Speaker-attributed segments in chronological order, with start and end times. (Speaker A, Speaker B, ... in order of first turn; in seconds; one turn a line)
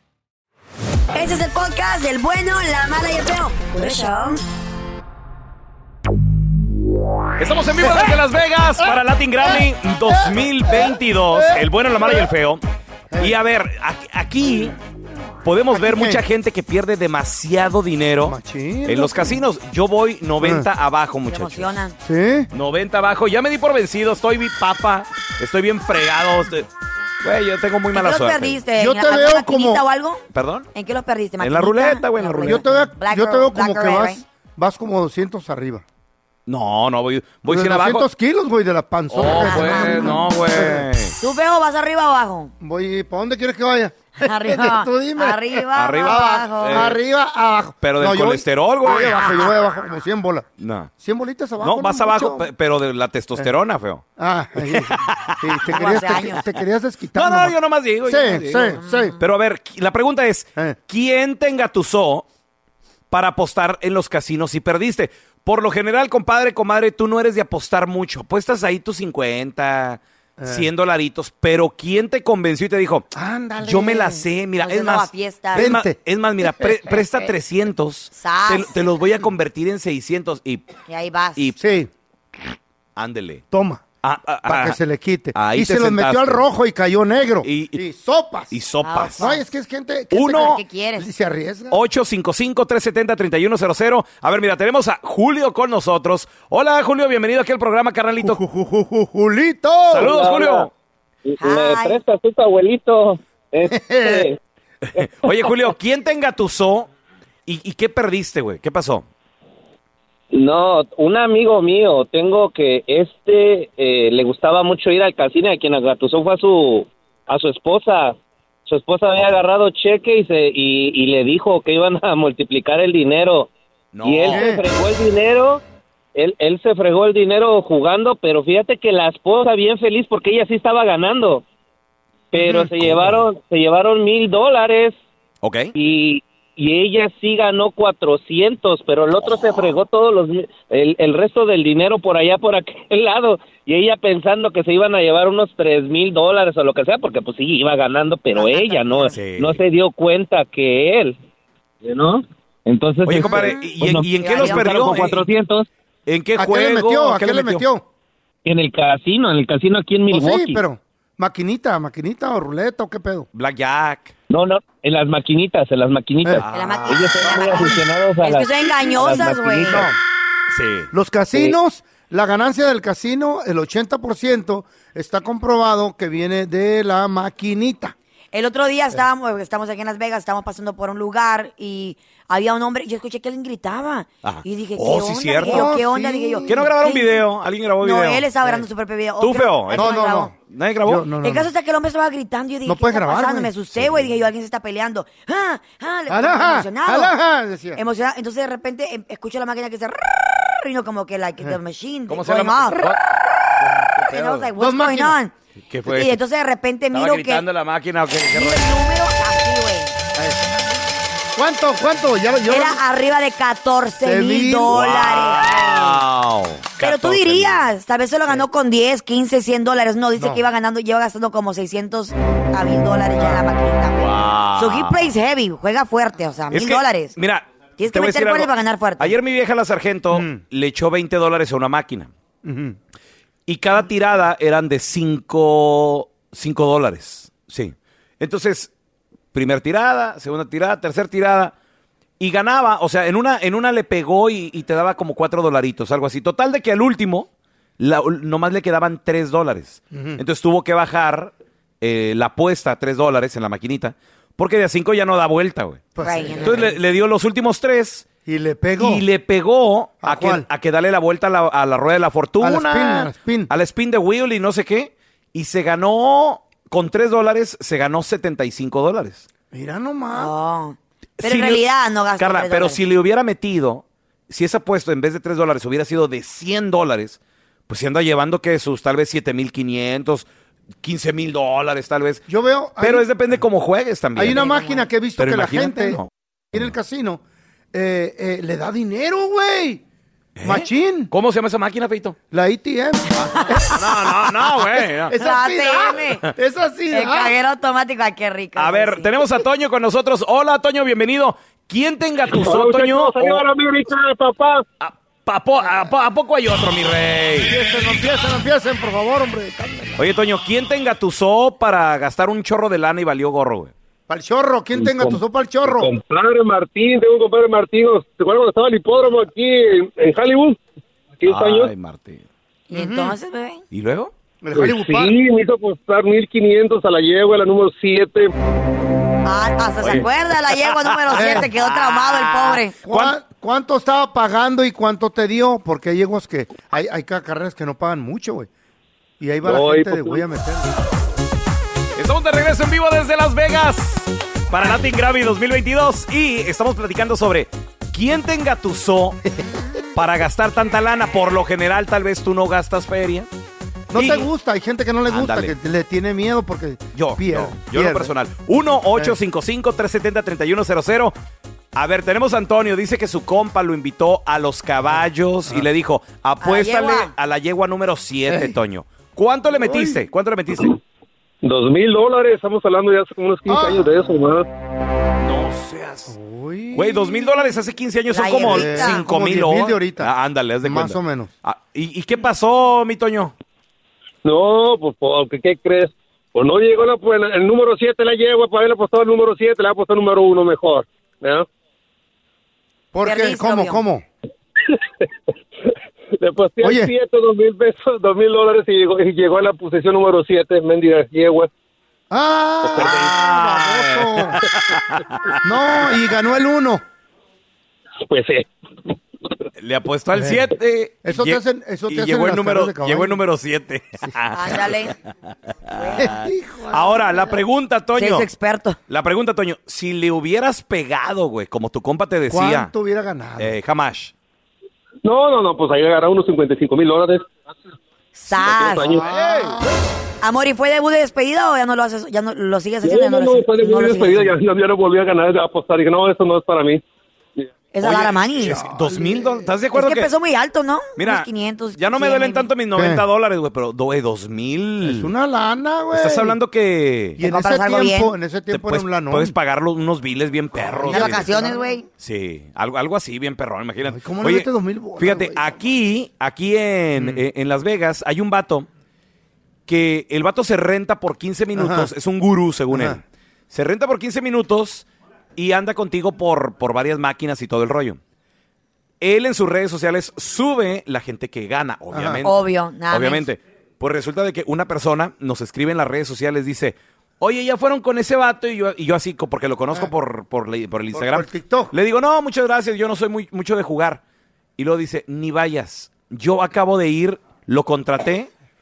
Speaker A: 1.1-4.4
Speaker B: 7.4-12.6
Speaker C: 7.8-8.1
Speaker C: 9.5-12.3
Speaker C: 13.1-13.3
Speaker B: 13.2-14.8
Speaker B: 15.4-21.8
Speaker C: 15.7-16.2
Speaker C: 18.2-19.4
Speaker C: 20.4-20.7
Speaker A: 21.3-21.9
Speaker C: 22.0-22.5
Speaker B: 22.5-26.7
Speaker B: 27.2-28.6
Speaker A: 27.9-30.2
Speaker C: 28.8-29.8
Speaker B: 30.3-30.7
Speaker A: 30.7-34.2
Speaker B: 31.4-32.6
Speaker C: 32.4-35.8
Speaker B: 36.5-38.0
Speaker C: 37.5-40.9
Speaker B: 39.1-41.1
Speaker A: 39.3-40.2
Speaker A: 41.2-42.5
Speaker C: 42.6-50.5
Speaker A: 44.2-46.9
Speaker B: 45.7-47.0
Speaker B: 47.8-49.3
Speaker A: 49.2-49.5
Speaker B: 50.6-50.9
Speaker C: 51.0-52.5
Speaker B: 51.6-54.0
Speaker C: 54.2-59.2
Speaker B: 54.7-55.5
Speaker A: 55.7-56.4
Speaker B: 57.1-62.2
Speaker B: 63.1-73.0
Speaker C: 70.4-70.7
Speaker C: 73.1-74.2
Speaker B: 73.6-80.7
Speaker A: 74.6-75.7
Speaker C: 75.5-77.1
Speaker A: 78.1-78.8
Speaker A: 80.9-81.5
Speaker C: 81.6-81.9
Speaker B: 83.0-83.4
Speaker C: 83.5-83.9
Speaker B: 84.0-84.8
Speaker C: 84.4-88.6
Speaker B: 85.3-86.4
Speaker B: 87.4-87.8
Speaker B: 88.5-89.3
Speaker A: 88.8-89.4
Speaker C: 89.1-91.8
Speaker B: 90.1-90.6
Speaker A: 90.2-91.1
Speaker B: 91.7-98.4
Speaker C: 98.2-100.1
Speaker B: 99.9-100.7
Speaker D: 100.0-100.7
Speaker D: 101.2-104.4
Speaker A: 101.4-102.0
Speaker C: 103.7-104.3
Speaker B: 105.0-106.9
Speaker B: 107.5-109.0
Speaker D: 110.3-123.5
Speaker B: 123.9-124.4
Speaker D: 124.0-125.6
Speaker C: 124.3-124.6
Speaker D: 126.1-131.4
Speaker D: 132.3-135.0
Speaker B: 135.4-135.7
Speaker D: 135.8-151.2
Speaker A: 148.3-149.1
Speaker B: 149.1-149.6
Speaker D: 151.8-155.7
Speaker B: 153.0-155.2
Speaker A: 153.2-154.7
Speaker B: 156.1-157.6
Speaker C: 156.3-157.8
Speaker D: 158.4-160.6
Speaker C: 160.1-163.3
Speaker B: 163.3-164.1
Speaker D: 164.3-169.8
Speaker B: 166.4-167.7
Speaker A: 166.5-169.9
Speaker C: 169.6-170.0
Speaker B: 170.5-170.9
Speaker C: 170.9-177.9
Speaker A: 178.3-187.2
Speaker B: 184.2-185.8
Speaker C: 185.4-186.6
Speaker B: 186.4-188.3
Speaker A: 187.8-190.3
Speaker B: 189.2-191.1
Speaker C: 189.7-191.5
Speaker A: 191.2-197.1
Speaker C: 192.6-193.5
Speaker B: 193.8-194.1
Speaker C: 196.1-197.8
Speaker A: 197.7-202.9
Speaker B: 202.1-203.0
Speaker B: 203.7-204.5
Speaker A: 204.1-205.3
Speaker C: 204.6-205.2
Speaker B: 205.7-206.2
Speaker A: 205.9-207.4
Speaker B: 206.9-208.7
Speaker A: 208.3-210.0
Speaker C: 211.3-212.8
Speaker A: 212.5-215.9
Speaker C: 214.0-214.8
Speaker B: 214.7-217.7
Speaker A: 216.8-227.2
Speaker C: 220.2-220.4
Speaker C: 223.2-223.4
Speaker B: 223.9-225.2
Speaker B: 226.5-232.1
Speaker A: 227.8-229.2
Speaker C: 230.1-230.4
Speaker C: 232.4-232.7
Speaker B: 233.5-238.7
Speaker B: 239.3-241.5
Speaker B: 242.2-247.3
Speaker B: 247.8-258.1
Speaker C: 249.9-250.2
Speaker C: 255.9-256.7
Speaker A: 256.0-256.7
Speaker C: 258.2-259.0
Speaker B: 258.8-269.2
Speaker C: 260.0-260.4
Speaker C: 262.4-263.5
Speaker C: 269.5-270.3
Speaker A: 270.1-272.8
Speaker B: 271.2-280.3
Speaker B: 280.8-282.2
Speaker C: 282.3-283.1
Speaker B: 282.8-286.6
Speaker C: 284.1-286.0
Speaker A: 284.4-284.8
Speaker C: 286.5-287.2
Speaker C: 287.7-289.8
Speaker B: 290.4-292.2
Speaker C: 290.4-291.1
Speaker C: 292.3-294.3
Speaker B: 293.7-295.1
Speaker C: 295.0-297.3
Speaker A: 295.1-296.2
Speaker A: 296.9-299.1
Speaker B: 298.6-303.4
Speaker E: 302.3-304.6
Speaker B: 304.8-307.5
Speaker C: 307.4-310.0
Speaker B: 310.0-313.7
Speaker C: 314.1-315.9
Speaker E: 314.7-320.6
Speaker E: 321.2-321.7
Speaker B: 321.2-322.2
Speaker A: 322.7-323.6
Speaker C: 322.7-323.2
Speaker B: 323.7-324.1
Speaker C: 324.4-325.1
Speaker E: 324.5-328.3
Speaker A: 329.2-332.8
Speaker B: 329.8-333.2
Speaker C: 331.1-331.5
Speaker C: 332.8-338.5
Speaker C: 339.2-340.7
Speaker E: 339.4-340.2
Speaker B: 341.9-349.2
Speaker B: 349.9-353.3
Speaker C: 353.9-358.1
Speaker B: 353.9-354.3
Speaker B: 355.1-355.5
Speaker B: 356.9-361.1
Speaker C: 358.9-359.1
Speaker B: 361.7-370.7
Speaker A: 366.4-367.1
Speaker C: 368.3-368.6
Speaker C: 369.6-370.0
Speaker E: 371.4-374.4
Speaker C: 373.4-373.9
Speaker B: 375.2-376.1
Speaker C: 376.1-377.5
Speaker B: 376.7-383.3
Speaker A: 378.1-379.0
Speaker C: 378.4-380.1
Speaker C: 380.6-381.3
Speaker E: 384.2-391.5
Speaker C: 392.9-394.0
Speaker A: 393.0-393.8
Speaker E: 396.2-401.5
Speaker C: 396.6-396.9
Speaker C: 402.1-404.4
Speaker B: 402.7-405.1
Speaker E: 402.8-403.0
Speaker C: 405.4-406.8
Speaker E: 408.1-408.5
Speaker B: 409.6-414.9
Speaker C: 410.1-410.5
Speaker C: 411.0-413.2
Speaker A: 414.3-414.9
Speaker B: 415.7-418.3
Speaker A: 415.8-416.1
Speaker C: 416.0-417.4
Speaker A: 417.9-418.8
Speaker B: 418.9-422.7
Speaker C: 422.3-423.5
Speaker B: 423.4-424.1
Speaker E: 425.0-427.3
Speaker A: 428.1-429.0
Speaker E: 428.3-429.6
Speaker C: 428.9-429.7
Speaker A: 430.2-434.4
Speaker E: 432.8-436.8
Speaker A: 437.7-438.6
Speaker B: 437.8-440.1
Speaker C: 438.4-439.5
Speaker A: 439.7-442.5
Speaker B: 441.0-445.1
Speaker C: 442.7-443.0
Speaker C: 444.8-446.4
Speaker B: 445.9-447.2
Speaker C: 447.2-449.4
Speaker A: 447.2-448.1
Speaker B: 448.5-451.3
Speaker C: 450.5-451.6
Speaker A: 450.8-451.9
Speaker B: 452.0-458.7
Speaker C: 453.8-455.5
Speaker C: 456.9-457.2
Speaker B: 459.7-468.0
Speaker C: 461.5-461.9
Speaker C: 462.7-463.0
Speaker B: 469.0-484.0
Speaker C: 471.9-472.2
Speaker A: 472.2-473.3
Speaker C: 480.9-481.7
Speaker B: 484.6-488.3